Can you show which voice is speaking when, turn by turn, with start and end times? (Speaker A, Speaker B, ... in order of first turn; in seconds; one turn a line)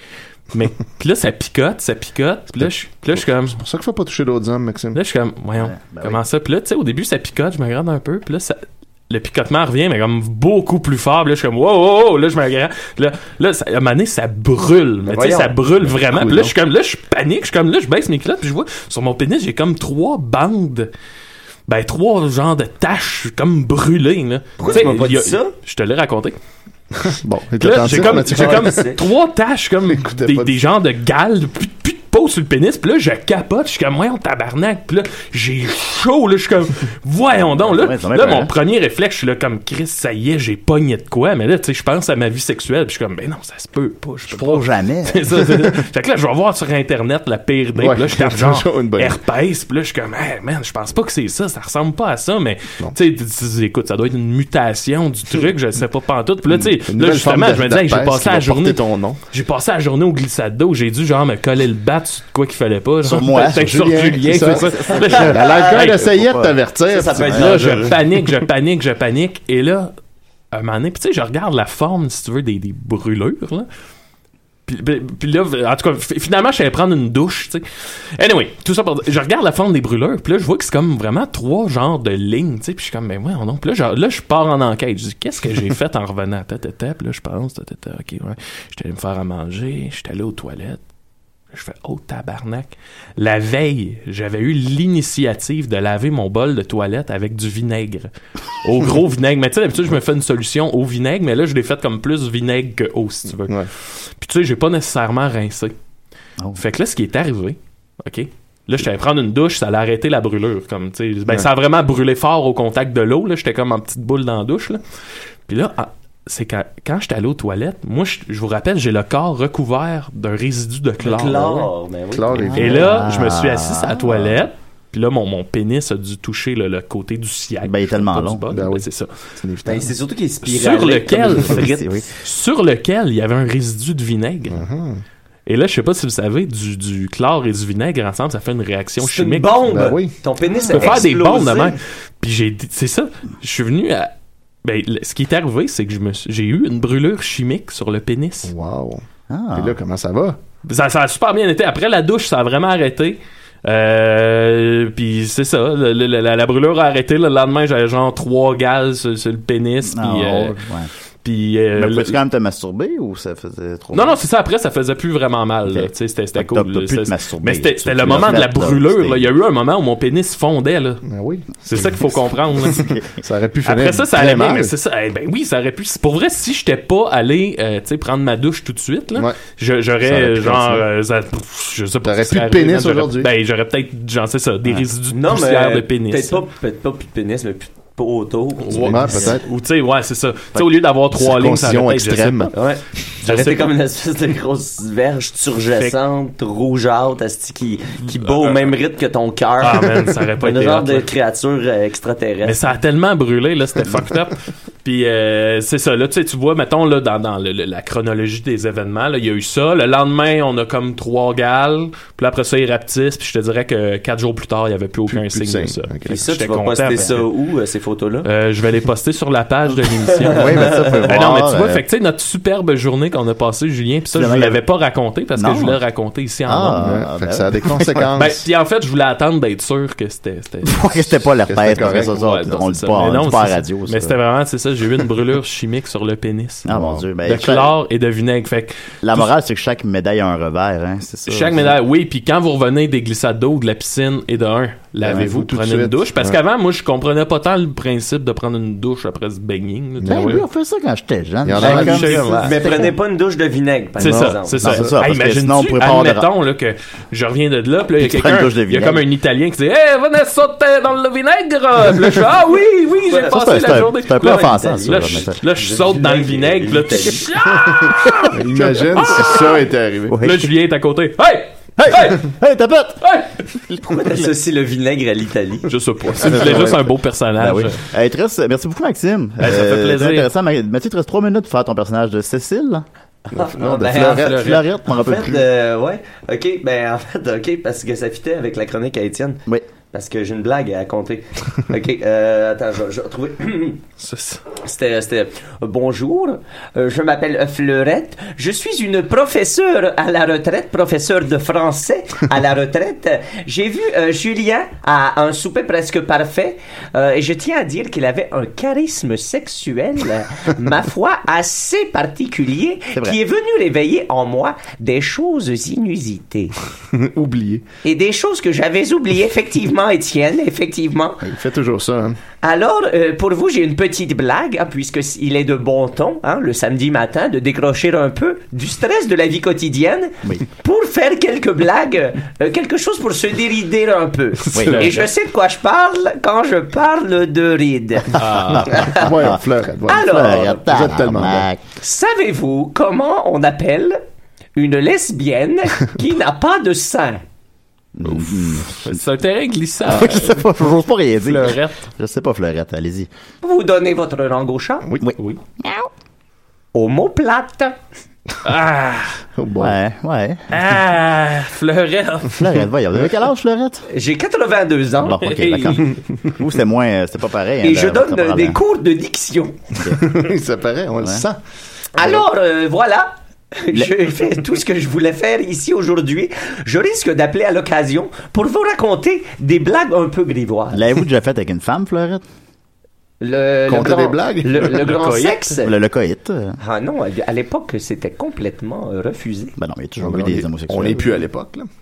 Speaker A: 0.5-3.6
Speaker B: 2.6-5.0
Speaker A: 5.0-20.9
Speaker C: 5.6-6.2
Speaker D: 15.0-15.6
Speaker B: 15.8-16.5
Speaker A: 21.7-26.4
Speaker D: 24.6-25.5
Speaker B: 27.0-28.9
Speaker A: 27.6-66.1
Speaker D: 27.9-29.0
Speaker B: 29.9-30.6
Speaker C: 37.5-38.5
Speaker C: 44.3-45.4
Speaker B: 47.8-49.2
Speaker B: 56.5-59.2
Speaker C: 63.0-63.8
Speaker B: 63.6-68.5
Speaker C: 64.5-65.2
Speaker D: 64.9-65.8
Speaker C: 66.0-66.6
Speaker D: 66.9-68.0
Speaker A: 67.3-69.9
Speaker A: 70.5-73.7
Speaker A: 74.7-90.8
Speaker A: 91.5-98.1
Speaker A: 98.6-105.7
Speaker A: 106.5-114.8
Speaker A: 115.5-121.7
Speaker D: 121.0-122.6
Speaker B: 122.1-122.9
Speaker C: 122.3-124.4
Speaker A: 122.5-129.1
Speaker C: 127.6-128.5
Speaker B: 128.5-128.8
Speaker B: 129.4-129.9
Speaker D: 129.7-132.0
Speaker A: 130.4-134.7
Speaker C: 131.4-132.1
Speaker B: 134.5-135.0
Speaker A: 135.5-139.7
Speaker D: 139.0-141.8
Speaker B: 139.7-140.1
Speaker C: 140.5-141.0
Speaker A: 140.7-144.1
Speaker A: 144.6-148.5
Speaker B: 148.4-149.0
Speaker C: 149.3-149.8
Speaker B: 149.6-150.4
Speaker A: 150.7-160.6
Speaker C: 159.8-160.9
Speaker A: 161.2-162.2
Speaker C: 161.8-164.2
Speaker A: 163.9-171.0
Speaker C: 165.7-169.3
Speaker B: 171.1-172.2
Speaker A: 171.7-172.9
Speaker C: 172.6-173.1
Speaker B: 173.2-174.7
Speaker A: 173.7-186.4
Speaker B: 180.0-180.8
Speaker B: 182.0-183.3
Speaker D: 185.1-189.2
Speaker A: 188.6-192.6
Speaker B: 188.8-189.5
Speaker B: 191.2-192.5
Speaker D: 192.5-202.6
Speaker A: 193.2-193.7
Speaker A: 198.4-198.7
Speaker A: 199.6-201.1
Speaker A: 202.4-217.3
Speaker B: 215.1-216.2
Speaker D: 216.1-218.3
Speaker A: 218.2-227.0
Speaker D: 220.0-221.1
Speaker C: 220.4-221.8
Speaker B: 220.4-220.8
Speaker C: 224.1-224.6
Speaker C: 225.4-225.8
Speaker C: 226.5-228.0
Speaker B: 226.8-228.4
Speaker A: 228.1-230.9
Speaker C: 230.6-234.2
Speaker B: 231.5-232.1
Speaker A: 231.7-236.7
Speaker C: 236.7-237.7
Speaker B: 236.7-237.1
Speaker A: 237.2-239.3
Speaker C: 239.0-241.8
Speaker A: 241.3-250.4
Speaker B: 245.1-246.4
Speaker B: 250.0-250.4
Speaker C: 250.1-252.9
Speaker B: 251.4-252.2
Speaker A: 251.6-252.7
Speaker D: 251.8-254.6
Speaker B: 254.0-254.9
Speaker A: 254.0-269.6
Speaker C: 254.6-256.3
Speaker C: 258.0-259.0
Speaker D: 263.1-263.4
Speaker C: 263.3-265.4
Speaker D: 264.0-267.3
Speaker B: 268.3-270.3
Speaker C: 268.9-269.4
Speaker C: 270.1-270.5
Speaker A: 270.2-272.3
Speaker C: 271.8-273.0
Speaker A: 273.0-274.2
Speaker D: 273.9-275.7
Speaker A: 275.7-277.8
Speaker B: 276.2-276.9
Speaker C: 277.4-282.9
Speaker A: 279.4-280.3
Speaker D: 283.3-293.8
Speaker B: 283.3-284.4
Speaker C: 283.8-285.4
Speaker A: 283.9-284.6
Speaker A: 294.0-294.4
Speaker D: 294.6-316.5
Speaker B: 316.9-317.6
Speaker D: 317.8-321.2
Speaker B: 321.2-322.2
Speaker D: 322.4-339.1
Speaker C: 334.5-334.9
Speaker A: 334.5-335.1
Speaker A: 338.1-338.8
Speaker C: 338.1-341.6
Speaker B: 338.8-341.5
Speaker D: 339.9-340.6
Speaker D: 341.8-344.0
Speaker D: 344.6-347.2
Speaker C: 347.9-349.0
Speaker A: 348.7-350.7
Speaker C: 349.9-353.1
Speaker A: 351.2-351.8
Speaker D: 353.4-354.9
Speaker C: 355.0-355.9
Speaker D: 356.7-357.8
Speaker A: 358.4-359.2
Speaker B: 359.4-359.8
Speaker C: 359.6-360.4
Speaker A: 360.5-362.6
Speaker C: 362.4-363.8
Speaker D: 363.9-365.7
Speaker C: 365.0-368.6
Speaker A: 365.2-365.9
Speaker D: 367.6-369.6
Speaker C: 369.8-370.0
Speaker B: 369.9-371.4
Speaker D: 371.9-380.9
Speaker C: 380.7-382.2
Speaker D: 383.2-385.7
Speaker B: 383.7-384.8
Speaker A: 384.6-385.6
Speaker C: 385.6-386.6
Speaker D: 386.6-389.6
Speaker C: 389.6-391.2
Speaker B: 390.0-391.7